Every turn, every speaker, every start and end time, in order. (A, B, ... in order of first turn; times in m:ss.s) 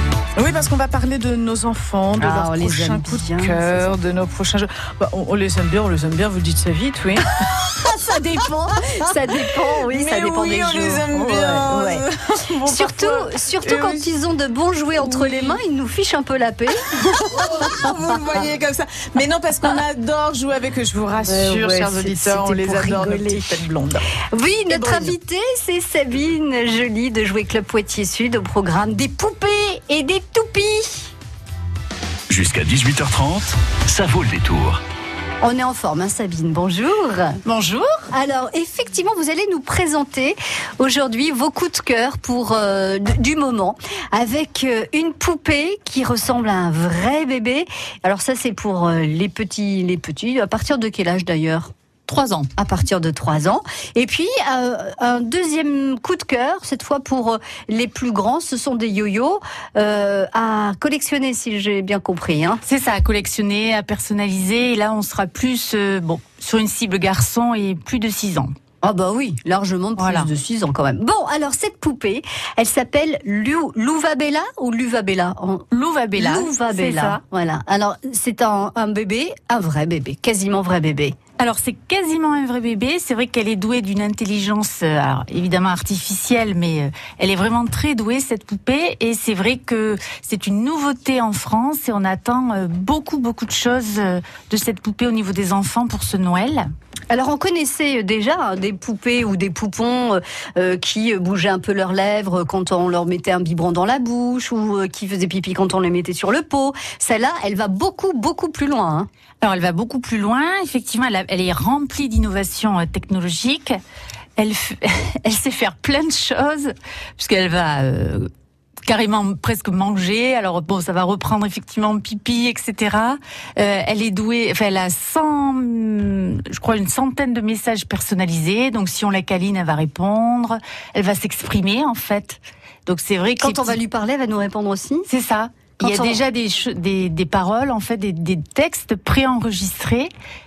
0:00.4-0:07.5 A
0:02.2-0:04.0 B
0:07.9-0:12.0 B
0:08.3-0:09.1 A
0:09.8-0:14.0 A
0:12.7-0:16.9 B
0:15.0-0:15.6 A
0:17.1-0:24.1 A
0:21.3-0:23.5 B
0:24.2-0:31.1 B
0:24.7-0:25.1 A
0:32.3-0:34.8 C
0:35.4-0:37.4 B
0:37.4-0:37.9 D
0:38.1-0:51.7 B
0:52.1-0:52.5 D
0:52.6-1:02.6 B
1:02.6-1:08.5 D
1:08.8-1:15.6 B
1:10.0-1:10.3 D
1:15.7-1:17.2 D
1:16.2-1:21.2 B
1:21.4-1:36.7 D
1:37.1-1:49.1 B
1:49.4-1:53.8 D
1:54.4-1:58.3 D
1:58.8-2:13.8 D
2:13.4-2:15.1 B
2:15.1-2:20.1 D
2:15.8-2:16.2 B